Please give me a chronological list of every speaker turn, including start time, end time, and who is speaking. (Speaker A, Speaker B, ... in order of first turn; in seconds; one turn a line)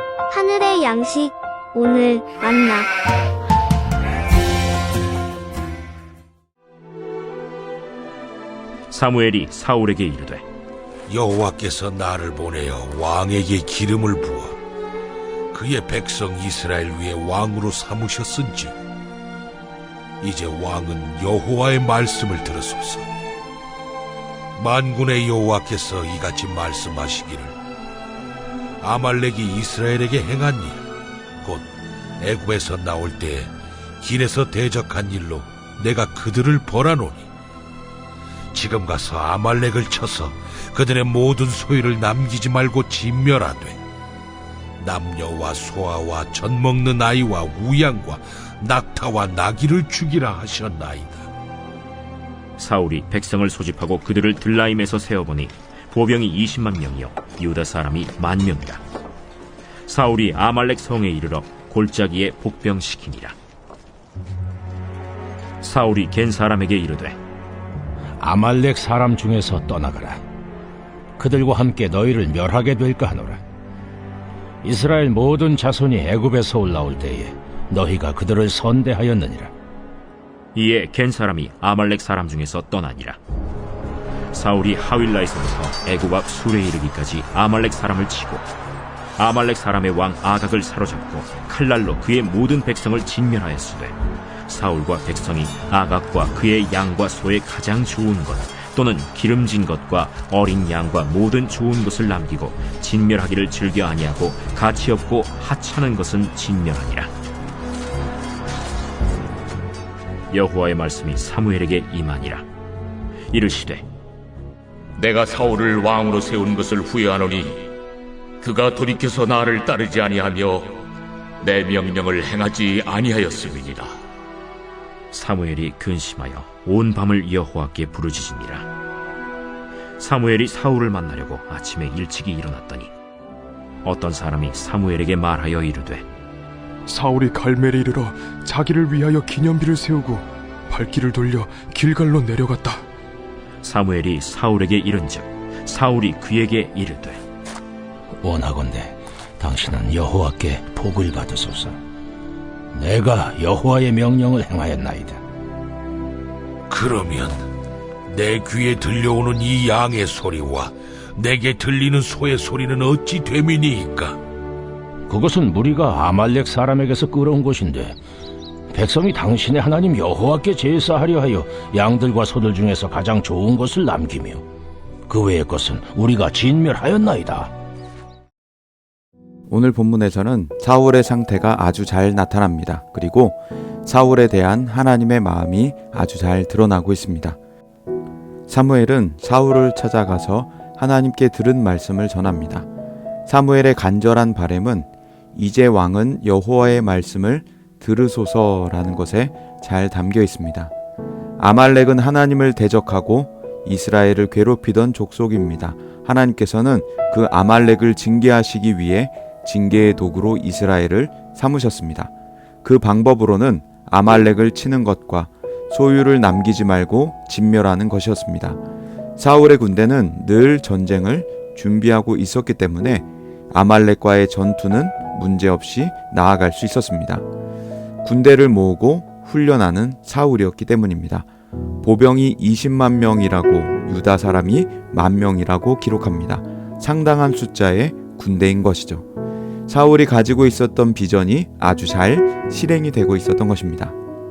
Speaker A: 0.3-2.9
Speaker B: 8.9-10.4
Speaker C: 11.1-14.6
Speaker C: 15.5-18.7
Speaker C: 20.2-23.1
Speaker C: 24.6-27.6
Speaker C: 28.8-30.8
Speaker C: 31.4-31.7
Speaker C: 32.2-37.3
Speaker C: 38.5-43.8
Speaker C: 44.8-51.2
Speaker B: 52.6-58.8
Speaker B: 59.9-63.4
Speaker B: 65.6-67.2
Speaker D: 68.2-70.2
Speaker D: 71.2-73.4
Speaker D: 74.6-79.5
Speaker B: 80.5-83.2
Speaker B: 84.3-88.5
Speaker B: 89.2-107.1
Speaker B: 110.3-112.5
Speaker B: 113.3-113.8
Speaker E: 115.0-117.7
Speaker E: 118.4-120.8
Speaker E: 121.4-123.9
Speaker B: 125.1-128.7
Speaker B: 130.0-132.9
Speaker B: 133.8-136.0
Speaker F: 136.9-142.8
Speaker B: 143.6-147.2
Speaker D: 148.2-151.8
Speaker D: 152.7-155.2
Speaker C: 156.7-157.5
Speaker C: 158.1-164.2
Speaker D: 165.1-167.9
Speaker D: 168.7-174.4
Speaker D: 175.1-177.5
Speaker G: 179.5-187.4
Speaker G: 188.5-192.7
Speaker G: 193.3-200.7
Speaker G: 201.4-212.1
Speaker G: 212.6-218.6
Speaker G: 219.2-227.2
Speaker G: 228.0-231.3
Speaker G: 231.8-239.0
Speaker G: 239.7-243.9